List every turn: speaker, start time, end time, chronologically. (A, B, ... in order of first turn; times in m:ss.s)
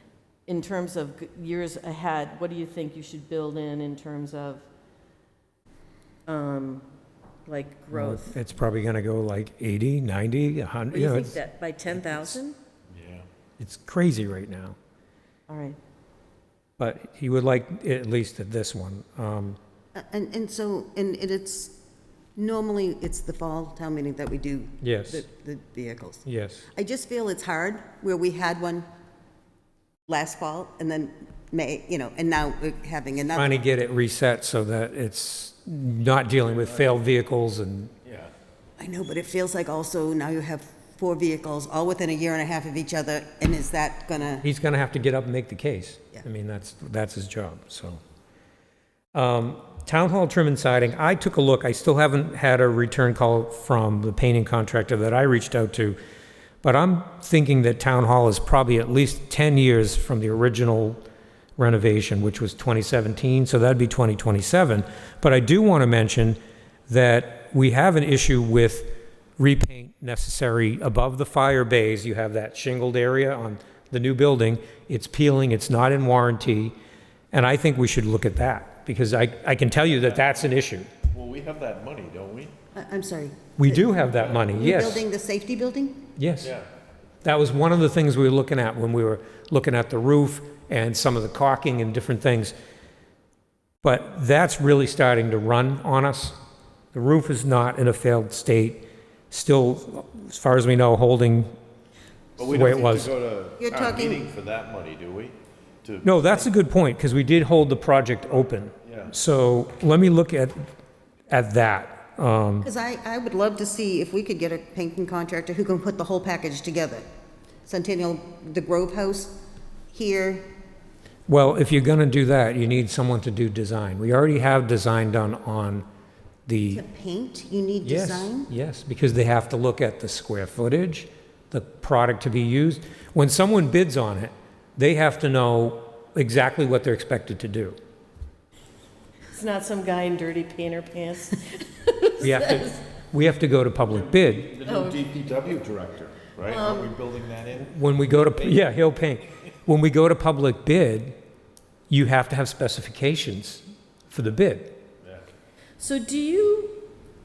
0:00.5-0:04.7 A
0:06.3-0:06.8 A
0:07.4-0:08.4 A
0:07.9-0:11.4 B
0:10.9-0:12.6 A
0:11.9-0:12.3 B
0:12.9-0:13.2 C
0:13.6-0:14.8 B
0:15.5-0:15.8 A
0:16.8-0:19.6 B
0:19.9-0:21.7 D
0:22.4-0:28.8 D
0:24.8-0:25.2 B
0:26.2-0:26.6 B
0:30.1-0:33.6 D
0:33.3-0:37.9 B
0:38.0-0:38.3 C
0:38.8-0:44.4 D
0:44.4-0:48.0 B
0:49.1-0:56.0 B
0:56.6-1:01.0 B
1:01.6-1:16.7 B
1:17.3-1:20.9 B
1:19.9-1:20.5 C
1:21.1-1:22.5 C
1:22.7-1:26.0 D
1:23.6-1:25.0 B
1:26.2-1:26.5 B
1:27.2-1:32.5 B
1:33.8-1:36.4 B
1:36.9-1:41.5 B
1:42.4-1:46.5 C
1:42.4-1:43.1 B
1:43.6-1:44.3 D
1:46.0-1:50.7 B
1:48.8-1:49.1 C
1:51.3-1:52.7 B
1:52.6-1:57.0 D
1:57.6-1:59.3 D
1:59.9-2:00.4 D
2:01.3-2:05.8 B
2:06.5-2:06.8 B
2:06.7-2:08.5 D
2:07.8-2:17.8 B
2:19.3-2:22.8 A
2:22.2-2:24.5 B
2:23.9-2:28.7 C
2:24.6-2:25.0 A
2:26.5-2:26.9 A
2:27.6-2:31.2 B
2:31.9-2:34.8 B
2:35.8-2:36.9 A